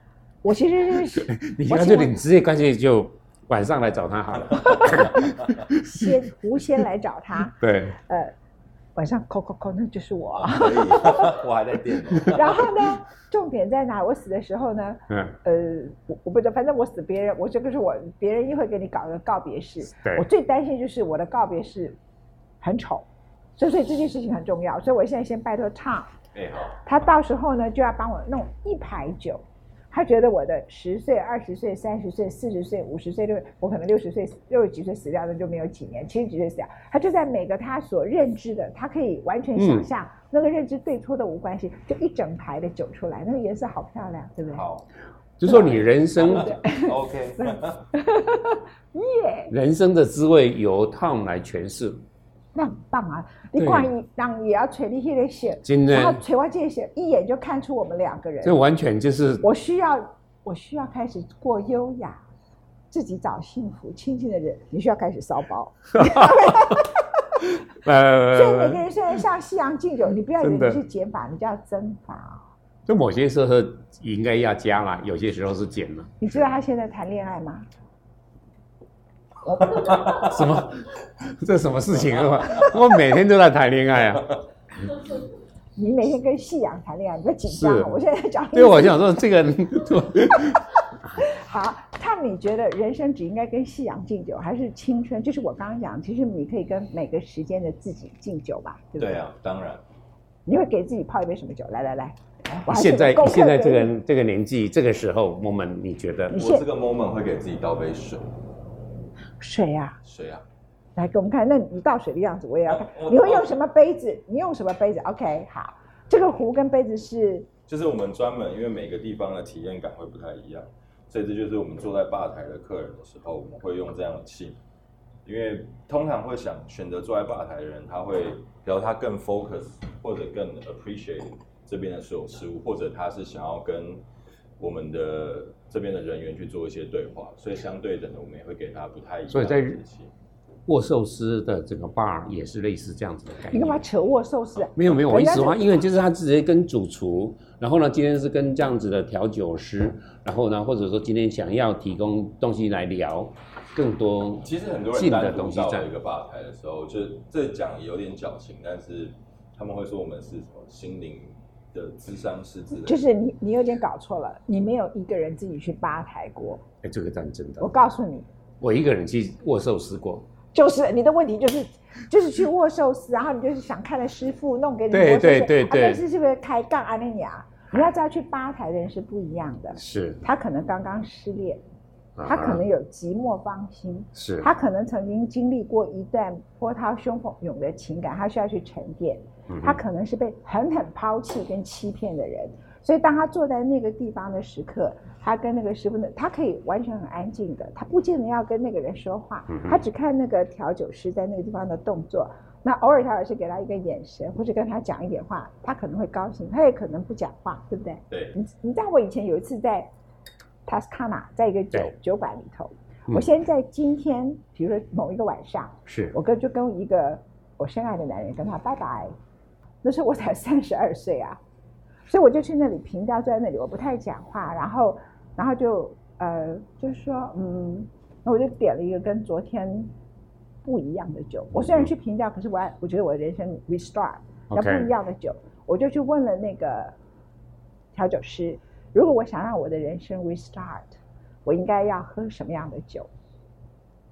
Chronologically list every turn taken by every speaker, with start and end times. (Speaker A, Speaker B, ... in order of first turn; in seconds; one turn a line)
Speaker A: 0.4-2.1
Speaker B: 1.2-5.8
Speaker A: 5.7-8.3
Speaker B: 7.6-8.0
Speaker A: 9.0-11.3
Speaker C: 10.4-12.6
Speaker A: 12.2-22.0
Speaker B: 20.0-20.2
Speaker A: 22.6-23.1
Speaker A: 23.6-26.1
Speaker C: 26.4-26.8
Speaker A: 26.8-44.7
Speaker B: 39.6-39.9
Speaker C: 44.5-44.9
Speaker B: 45.4-46.6
Speaker A: 45.5-49.5
Speaker C: 45.5-47.8
Speaker B: 49.5-52.0
Speaker A: 52.5-58.6
Speaker B: 53.6-53.9
Speaker B: 55.6-56.2
Speaker B: 58.4-59.5
Speaker A: 59.4-62.2
Speaker A: 62.9-67.1
Speaker B: 66.0-66.5
Speaker B: 67.8-68.8
Speaker A: 68.3-72.5
Speaker B: 70.4-70.8
Speaker B: 72.9-76.3
Speaker A: 76.2-77.7
Speaker A: 79.5-80.3
Speaker B: 80.1-84.3
Speaker A: 85.8-89.0
Speaker B: 87.5-88.0
Speaker B: 88.5-90.6
Speaker A: 91.2-99.2
Speaker C: 99.0-99.8
Speaker A: 100.5-103.9
Speaker B: 102.6-106.4
Speaker A: 106.3-106.7
Speaker C: 106.3-108.3
Speaker A: 109.4-110.0
Speaker C: 110.0-110.4
Speaker A: 111.0-117.5
Speaker C: 112.7-113.6
Speaker C: 117.7-124.6
Speaker C: 125.2-134.0
Speaker C: 134.6-140.1
Speaker B: 139.3-139.8
Speaker B: 140.7-143.8
Speaker A: 143.5-145.8
Speaker B: 144.8-155.9
Speaker C: 154.4-163.0
Speaker A: 162.7-166.6
Speaker B: 166.8-167.7
Speaker A: 167.6-168.3
Speaker B: 168.6-170.2
Speaker A: 170.5-181.6
Speaker B: 174.9-176.0
Speaker B: 179.8-180.2
Speaker B: 182.2-182.6
Speaker A: 182.2-209.9
Speaker B: 184.2-184.5
Speaker B: 189.5-189.8
Speaker B: 199.5-199.8
Speaker C: 208.1-208.4
Speaker A: 210.7-219.1
Speaker B: 215.9-216.2
Speaker A: 219.8-221.4
Speaker A: 222.1-229.9
Speaker A: 230.6-236.9
Speaker B: 234.5-234.9
Speaker A: 237.9-243.1